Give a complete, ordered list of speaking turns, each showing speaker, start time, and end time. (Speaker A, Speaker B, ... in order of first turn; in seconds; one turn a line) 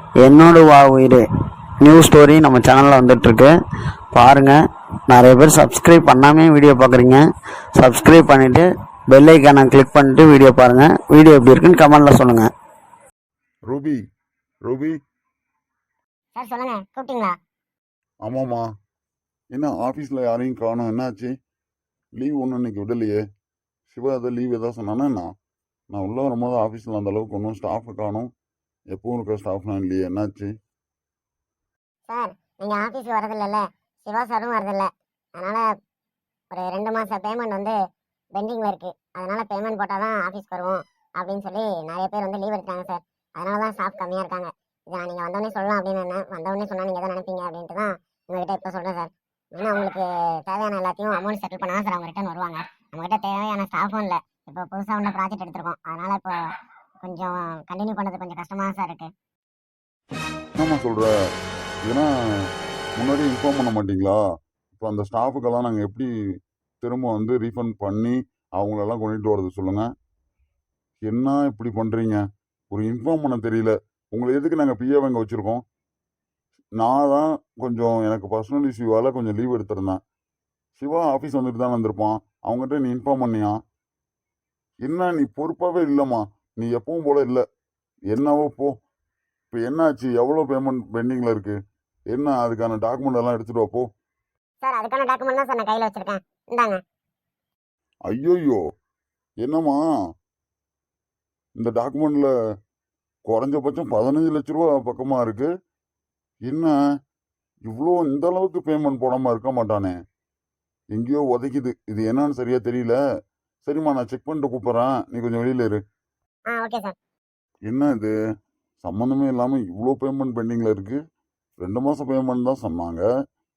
Speaker A: 0.2-1.3
Speaker A: 1.8-3.5
Speaker A: 4.1-4.6
Speaker A: 5.1-12.5
Speaker B: 13.7-14.0
Speaker B: 14.7-15.0
Speaker C: 16.4-17.4
Speaker B: 18.2-18.7
Speaker B: 19.5-21.3
Speaker B: 22.2-23.2
Speaker B: 23.9-25.3
Speaker B: 25.9-28.3
Speaker B: 28.9-30.5
Speaker C: 32.1-35.6
Speaker C: 36.5-37.8
Speaker C: 38.4-56.4
Speaker C: 57.0-59.1
Speaker B: 60.6-61.1
Speaker B: 61.8-62.1
Speaker B: 63.0-64.2
Speaker B: 64.8-66.1
Speaker B: 66.8-69.9
Speaker B: 71.0-75.6
Speaker B: 76.8-80.0
Speaker B: 80.8-83.5
Speaker B: 84.8-87.4
Speaker B: 88.1-88.7
Speaker B: 89.5-91.6
Speaker B: 92.1-93.8
Speaker C: 94.6-96.8
Speaker B: 98.1-98.6
Speaker B: 99.4-99.8
Speaker B: 101.6-102.3
Speaker B: 103.3-105.5
Speaker B: 106.5-106.7
Speaker B: 107.7-110.0
Speaker B: 110.9-113.0
Speaker B: 113.7-115.8
Speaker C: 116.5-117.0
Speaker B: 117.7-118.1
Speaker B: 118.8-121.0
Speaker B: 121.6-123.0